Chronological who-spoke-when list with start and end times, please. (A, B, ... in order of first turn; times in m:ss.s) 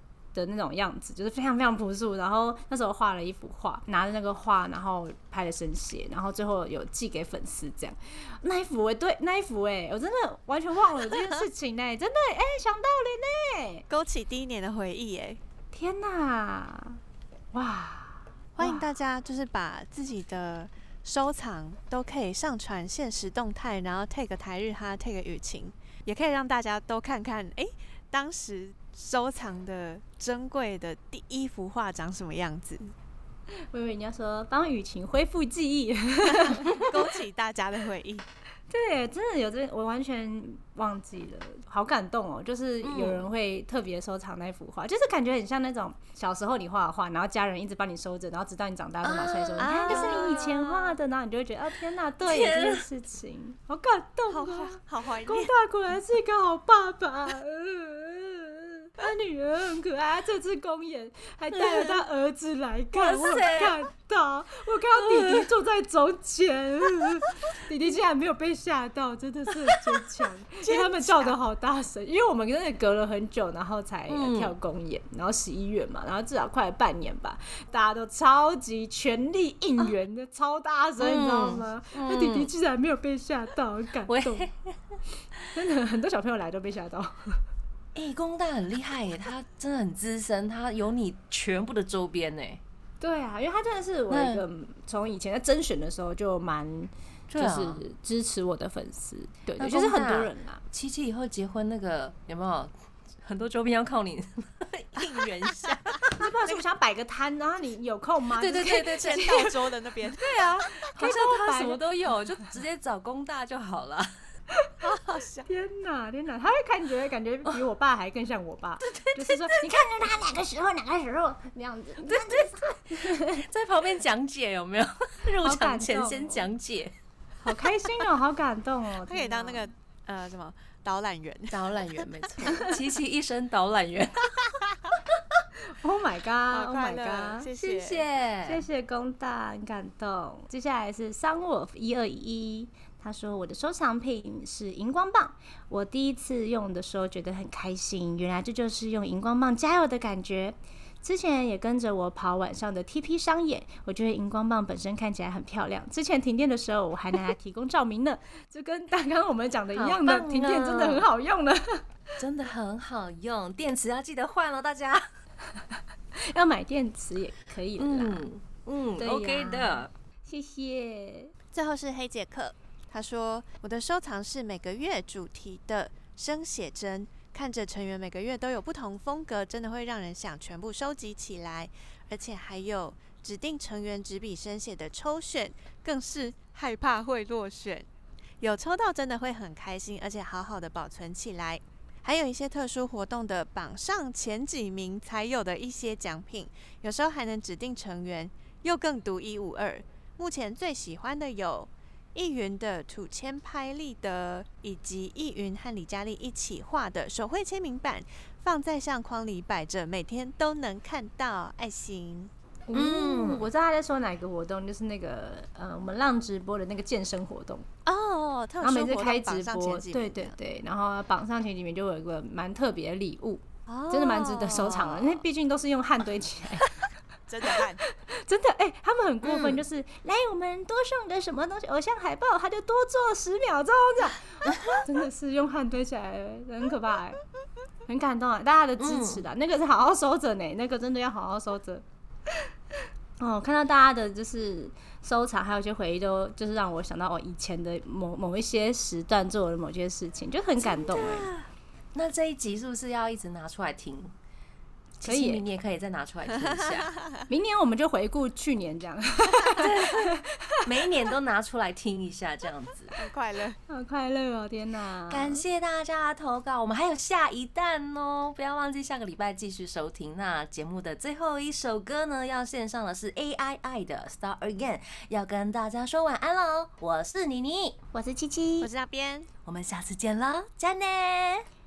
0:00.3-0:13.8 A
0:11.1-0:11.4 B
0:13.9-0:15.4 B
0:15.7-0:17.0 A
0:17.5-0:18.8 A
0:18.6-0:32.9 B
0:33.6-0:37.0 A
0:36.3-0:38.2 B
0:38.7-1:24.5 A
0:42.8-0:43.3 C
0:49.0-0:51.0 C
0:49.6-0:50.5 B
0:52.2-0:52.8 C
0:54.3-0:55.5 B
1:01.5-1:02.0 C
1:02.9-1:03.8 C
1:05.0-1:05.5 C
1:10.7-1:11.4 B
1:14.1-1:14.6 C
1:21.0-1:22.5 C
1:24.1-1:24.8 C
1:25.5-1:27.4 A
1:28.0-1:32.6 C
1:33.0-1:40.6 A
1:34.1-1:34.4 C
1:37.3-1:37.8 C
1:39.6-1:42.7 C
1:43.2-1:46.2 C
1:46.1-1:49.5 A
1:48.4-1:49.4 C
1:48.9-1:50.3 B
1:50.2-1:51.8 A
1:50.2-1:54.2 C
1:54.8-1:55.5 B
1:55.5-2:03.4 A
1:58.8-1:59.7 C
2:02.1-2:06.9 C
2:05.4-2:06.5 A
2:07.4-2:09.7 A
2:09.0-2:12.5 B
2:11.5-2:14.6 C
2:15.8-2:17.5 A
2:16.5-2:18.0 B
2:17.6-2:18.6 C
2:18.4-2:41.8 A
2:39.7-2:41.1 C
2:42.2-2:45.0 C
2:45.6-2:48.2 A
2:47.8-2:49.9 C
2:49.0-2:51.3 A
2:51.5-3:07.9 B
3:08.4-3:32.3 B
3:32.7-3:37.7 A
3:32.7-3:33.5 C
3:37.9-3:40.4 B
3:38.6-3:46.8 A
3:43.7-3:44.8 B
3:44.8-3:45.1 C
3:47.3-3:47.8 B
3:47.8-3:57.2 A
3:49.2-3:49.6 C
3:54.5-3:54.8 C
3:57.9-4:01.8 A
3:58.8-3:59.2 C
4:03.2-4:11.3 A
4:10.6-4:14.1 C
4:15.0-4:16.9 C
4:15.0-4:15.4 A
4:17.3-4:20.6 A
4:19.5-4:23.0 C
4:23.0-4:23.6 B
4:23.7-4:25.4 A
4:25.1-4:37.8 C
4:38.0-4:38.7 A
4:38.6-4:39.3 B
4:39.4-4:41.5 C